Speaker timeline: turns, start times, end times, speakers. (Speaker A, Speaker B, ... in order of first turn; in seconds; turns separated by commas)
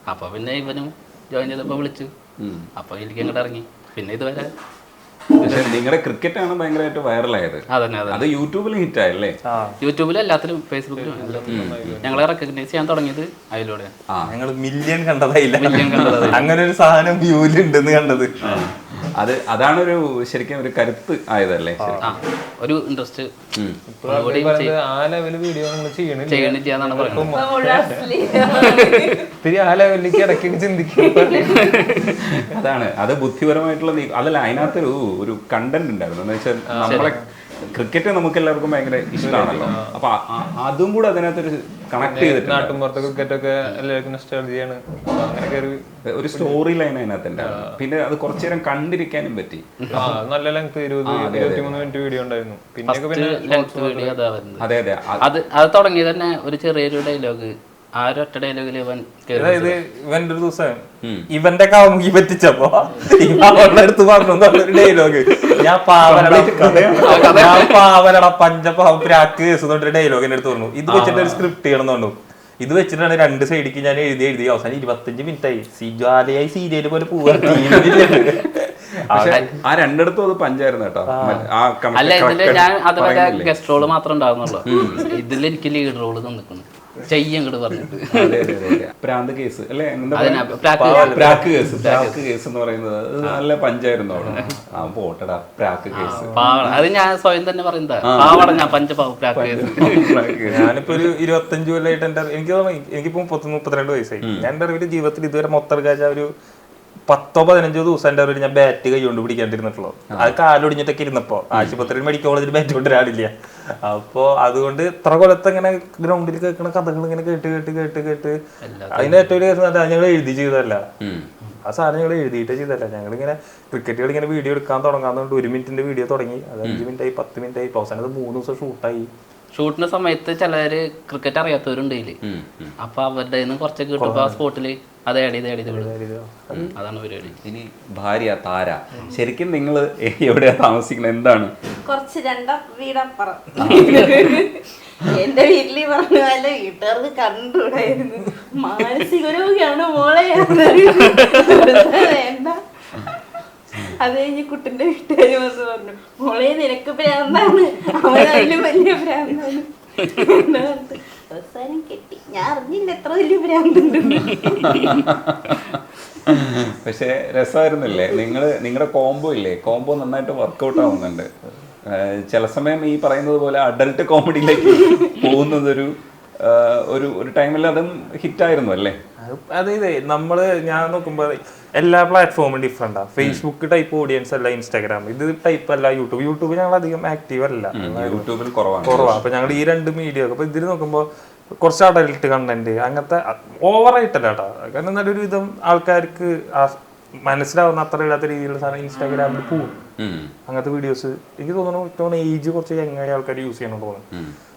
Speaker A: 0.1-2.1, Speaker B: 2.4-2.7, Speaker A: 2.8-4.5, Speaker B: 5.4-9.4, Speaker A: 5.4-5.7, Speaker A: 7.7-8.2, Speaker C: 9.5-9.8, Speaker A: 9.8-13.9, Speaker D: 10.9-12.2, Speaker B: 11.5-12.0, Speaker B: 14.1-14.3, Speaker C: 14.3-18.3, Speaker A: 15.6-16.5, Speaker B: 15.7-16.5, Speaker B: 18.4-22.1, Speaker C: 21.8-22.2, Speaker A: 22.0-23.3, Speaker D: 23.9-28.6, Speaker A: 24.1-24.7, Speaker A: 26.3-27.4, Speaker E: 27.3-29.3, Speaker A: 28.5-29.1, Speaker D: 29.4-31.8, Speaker E: 31.0-32.1, Speaker A: 31.6-32.0, Speaker B: 32.4-42.8, Speaker D: 36.7-37.2, Speaker A: 36.8-37.1, Speaker D: 39.2-40.0, Speaker D: 42.0-45.8, Speaker B: 46.1-49.6, Speaker D: 47.4-47.8, Speaker A: 49.8-50.1, Speaker D: 49.9-54.1, Speaker B: 51.0-51.9, Speaker A: 52.9-54.7, Speaker B: 54.6-55.2, Speaker A: 55.2-59.8, Speaker C: 59.3-79.4, Speaker B: 66.0-67.8, Speaker A: 67.1-67.4, Speaker B: 70.9-71.5, Speaker B: 77.4-78.3, Speaker B: 79.1-83.8, Speaker C: 81.1-81.5, Speaker A: 81.9-88.8, Speaker B: 84.6-85.1, Speaker B: 88.1-96.6, Speaker A: 90.1-92.2, Speaker C: 90.8-91.5, Speaker A: 95.9-100.3, Speaker C: 96.1-96.7, Speaker B: 98.0-98.6, Speaker B: 99.3-101.1, Speaker C: 100.5-106.3, Speaker B: 104.2-104.5, Speaker C: 107.1-113.3, Speaker B: 111.5-111.8, Speaker C: 113.8-118.4, Speaker A: 118.6-119.3, Speaker C: 118.9-120.8, Speaker B: 121.0-121.3, Speaker C: 121.6-129.1, Speaker A: 129.5-132.2, Speaker B: 132.2-132.7, Speaker A: 132.8-135.9, Speaker C: 134.0-134.4, Speaker C: 135.7-136.7, Speaker A: 136.7-137.4, Speaker B: 137.3-141.5, Speaker E: 141.8-153.1, Speaker B: 143.6-144.0, Speaker E: 153.9-165.1, Speaker B: 164.6-165.6, Speaker B: 166.2-171.3, Speaker B: 171.8-179.0, Speaker C: 179.2-188.3, Speaker B: 187.7-189.5, Speaker C: 188.8-191.1, Speaker C: 191.6-199.7, Speaker B: 200.0-200.3, Speaker C: 200.5-204.0